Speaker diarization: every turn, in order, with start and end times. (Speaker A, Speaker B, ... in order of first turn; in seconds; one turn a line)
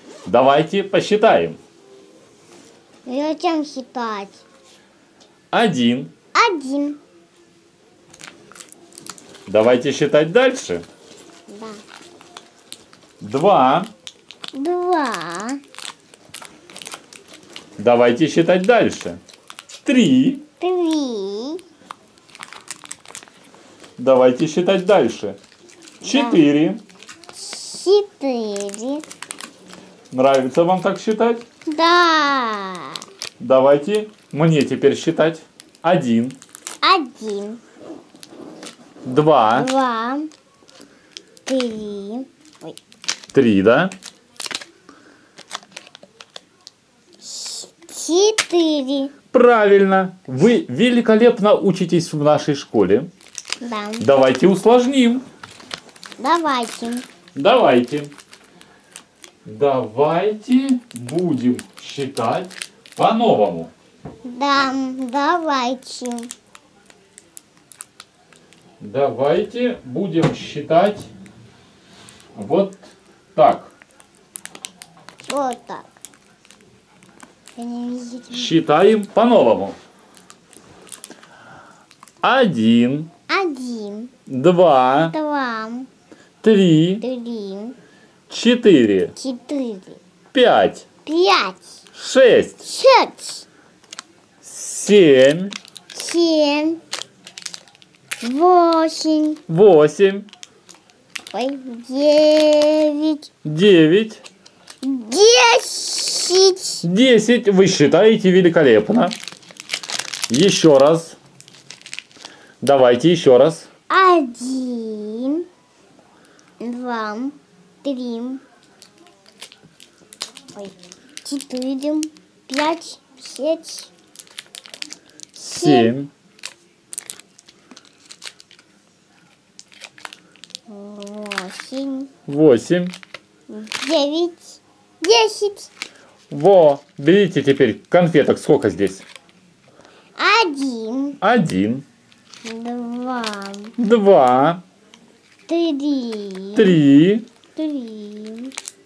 Speaker A: 0.3-1.6
Speaker B: 3.1-4.4
Speaker A: 5.5-6.1
Speaker B: 6.3-7.0
Speaker A: 9.5-10.8
Speaker B: 11.5-11.8
Speaker A: 13.2-13.9
Speaker B: 14.5-15.6
Speaker A: 17.8-19.2
Speaker A: 19.9-20.4
Speaker B: 20.6-21.6
Speaker A: 24.0-25.4
Speaker B: 26.0-26.4
Speaker A: 26.0-26.8
Speaker B: 27.3-29.0
Speaker A: 30.1-31.4
Speaker B: 31.7-33.0
Speaker A: 33.4-36.4
Speaker B: 36.8-37.6
Speaker A: 39.0-39.7
Speaker B: 39.5-40.3
Speaker B: 41.5-42.8
Speaker A: 43.3-43.9
Speaker B: 47.2-49.1
Speaker A: 49.3-53.1
Speaker B: 53.6-54.0
Speaker A: 54.0-55.2
Speaker B: 56.2-57.1
Speaker A: 57.4-58.1
Speaker A: 59.5-63.7
Speaker B: 64.2-66.3
Speaker A: 68.8-71.1
Speaker A: 72.3-72.8
Speaker A: 73.3-73.7
Speaker B: 75.2-75.9
Speaker B: 77.6-78.5
Speaker A: 78.3-79.8
Speaker A: 82.2-83.1
Speaker B: 83.3-84.1
Speaker A: 84.3-85.1
Speaker B: 85.0-85.9
Speaker A: 86.4-87.0
Speaker B: 87.0-87.8
Speaker A: 88.3-89.2
Speaker B: 89.2-90.0
Speaker A: 90.3-90.9
Speaker B: 91.1-91.7
Speaker A: 91.9-92.6
Speaker B: 92.6-93.5
Speaker A: 94.4-95.6
Speaker B: 95.9-96.8
Speaker B: 98.2-99.4
Speaker A: 99.5-100.3
Speaker B: 101.3-103.3
Speaker A: 103.4-104.2
Speaker B: 104.8-106.8
Speaker A: 106.8-109.2
Speaker A: 110.3-111.2
Speaker A: 112.6-113.7
Speaker B: 113.9-115.5
Speaker B: 116.6-118.4
Speaker B: 120.5-123.9
Speaker A: 125.4-126.1
Speaker B: 125.5-125.9
Speaker B: 130.7-132.1
Speaker A: 132.3-133.0
Speaker B: 133.5-135.7
Speaker A: 136.3-139.1
Speaker B: 140.2-141.2
Speaker A: 141.2-141.8
Speaker B: 142.4-143.8
Speaker A: 143.8-144.6
Speaker B: 145.5-146.8
Speaker A: 146.6-147.3
Speaker B: 147.6-148.5